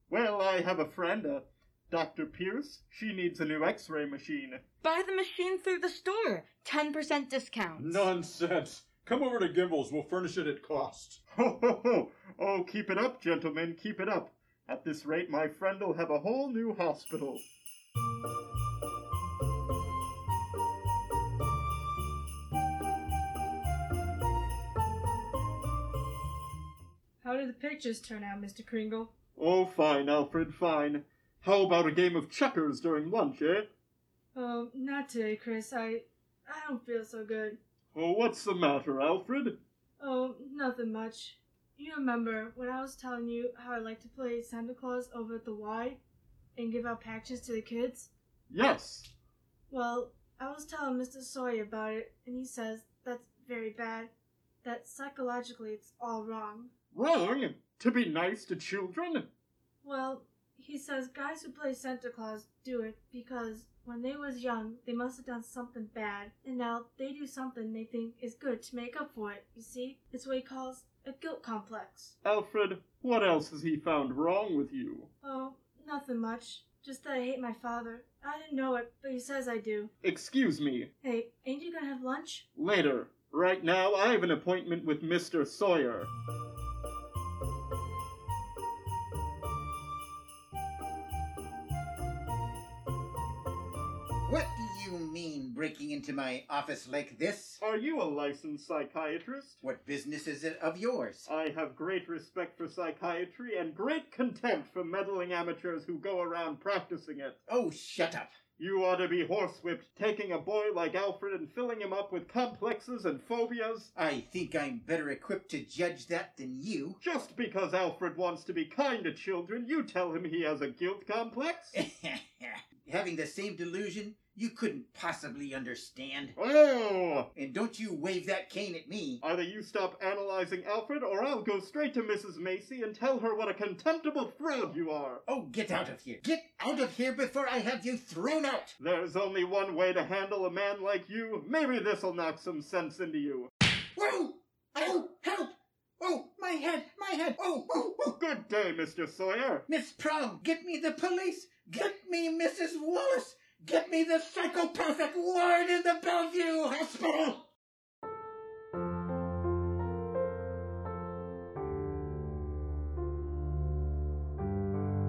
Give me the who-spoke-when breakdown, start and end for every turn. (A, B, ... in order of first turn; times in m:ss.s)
0:00.1-0:04.6 A
0:04.8-0:08.1 B
0:07.8-0:11.2 C
0:11.3-0:17.4 A
0:27.2-0:29.1 D
0:29.4-0:33.7 A
0:34.3-0:37.6 D
0:37.9-0:39.6 A
0:40.0-0:46.0 D
0:46.6-0:48.1 D
0:48.5-0:49.1 A
0:49.7-0:54.1 D
0:54.6-0:56.7 D
0:56.9-0:59.3 A
0:59.8-1:12.1 D
1:12.2-1:15.1 A
1:15.2-1:19.9 D
1:20.0-1:20.9 A
1:21.0-1:22.5 D
1:22.5-1:26.1 A
1:34.2-1:37.6 E
1:37.6-1:39.6 A
1:39.6-1:41.3 E
1:41.2-1:47.4 A
1:47.5-1:48.3 E
1:48.6-1:53.9 A
1:53.9-1:57.0 E
1:57.0-2:01.8 A
2:01.7-2:06.4 E
2:06.4-2:07.3 A
2:07.3-2:09.2 E
2:09.2-2:15.2 A
2:15.3-2:18.7 E
2:18.8-2:23.5 A
2:24.0-2:28.0 E
2:28.0-2:29.6 A
2:29.7-2:37.5 E